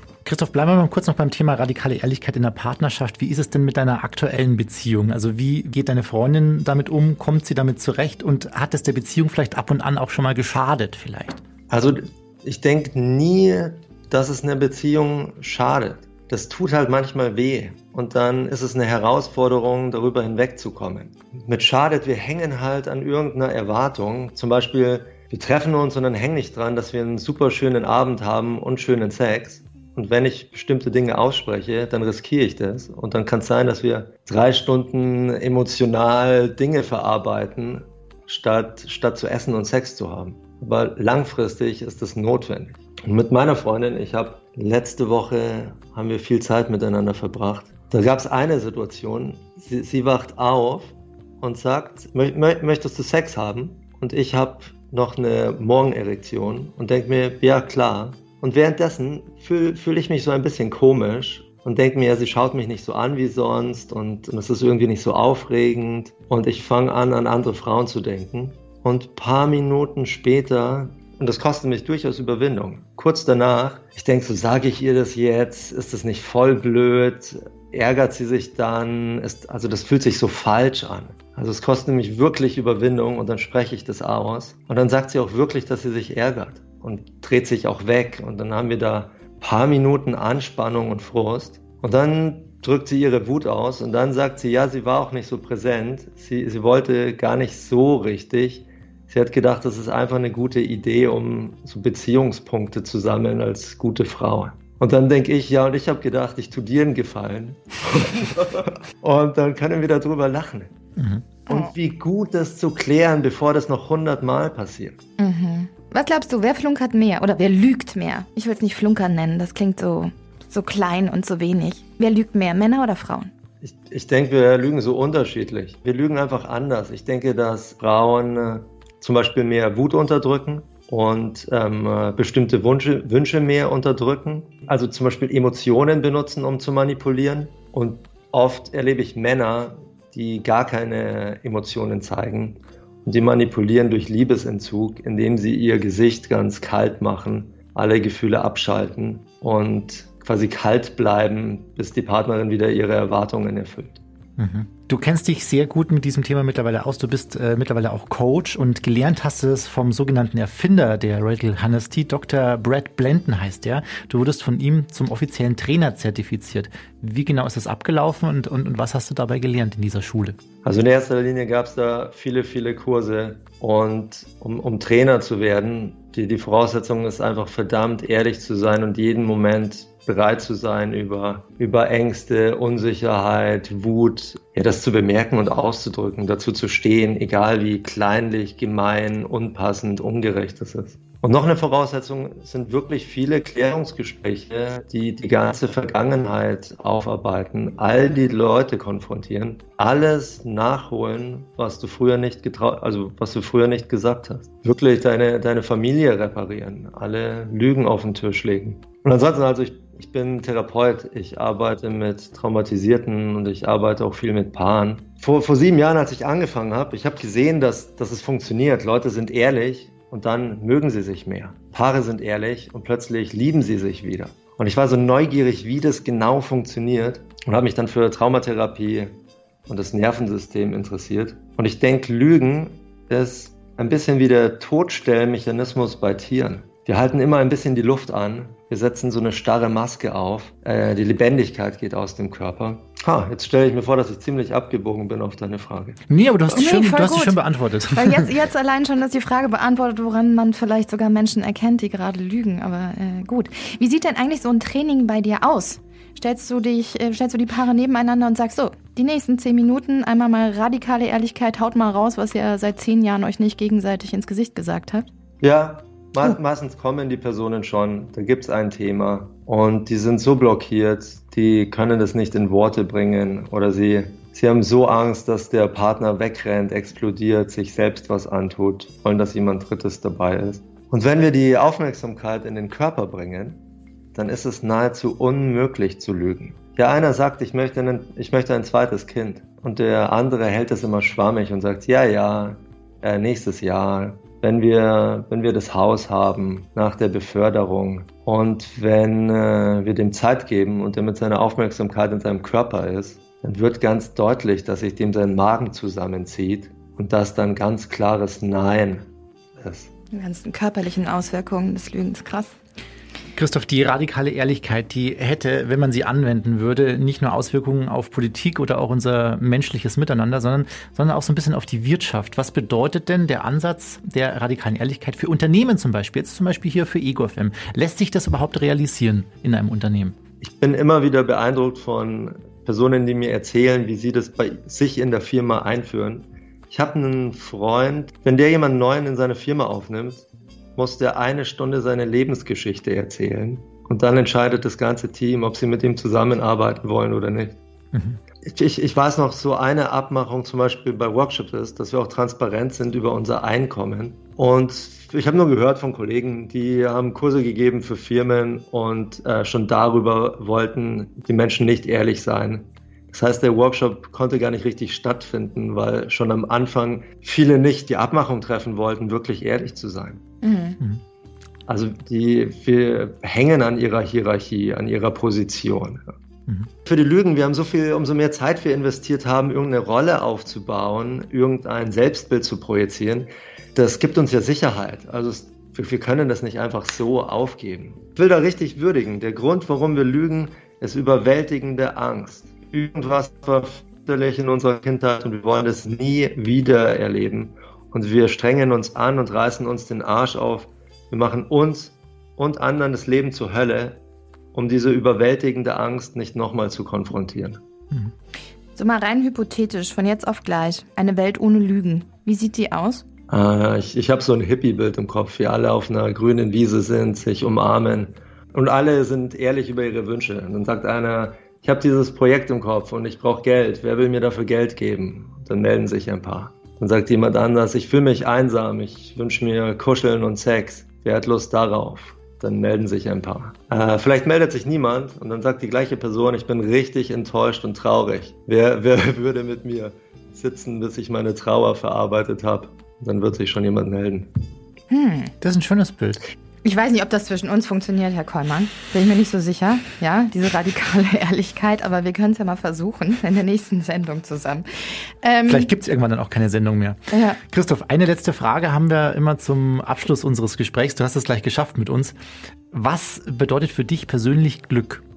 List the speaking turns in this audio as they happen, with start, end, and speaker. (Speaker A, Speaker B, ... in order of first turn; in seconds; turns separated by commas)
Speaker A: 0.2-11.4, Speaker B: 11.7-110.7, Speaker A: 111.0-111.2, Speaker B: 111.5-115.0, Speaker C: 115.2-123.3, Speaker B: 123.6-154.0, Speaker A: 154.4-170.3, Speaker B: 170.6-246.6, Speaker A: 246.1-248.3, Speaker C: 246.5-247.4, Speaker C: 248.0-265.1, Speaker B: 265.4-283.6, Speaker B: 284.1-309.9, Speaker C: 310.1-312.6, Speaker A: 313.4-330.1, Speaker B: 330.4-340.2, Speaker B: 340.8-347.6, Speaker B: 348.4-370.2, Speaker C: 370.4-370.8, Speaker B: 371.7-376.1, Speaker B: 376.8-404.0, Speaker B: 404.5-407.6, Speaker C: 408.8-413.0, Speaker B: 413.3-444.3, Speaker C: 444.9-445.3, Speaker A: 445.4-446.2, Speaker C: 446.6-455.7, Speaker A: 455.5-462.1, Speaker C: 457.1-457.4, Speaker A: 462.7-465.0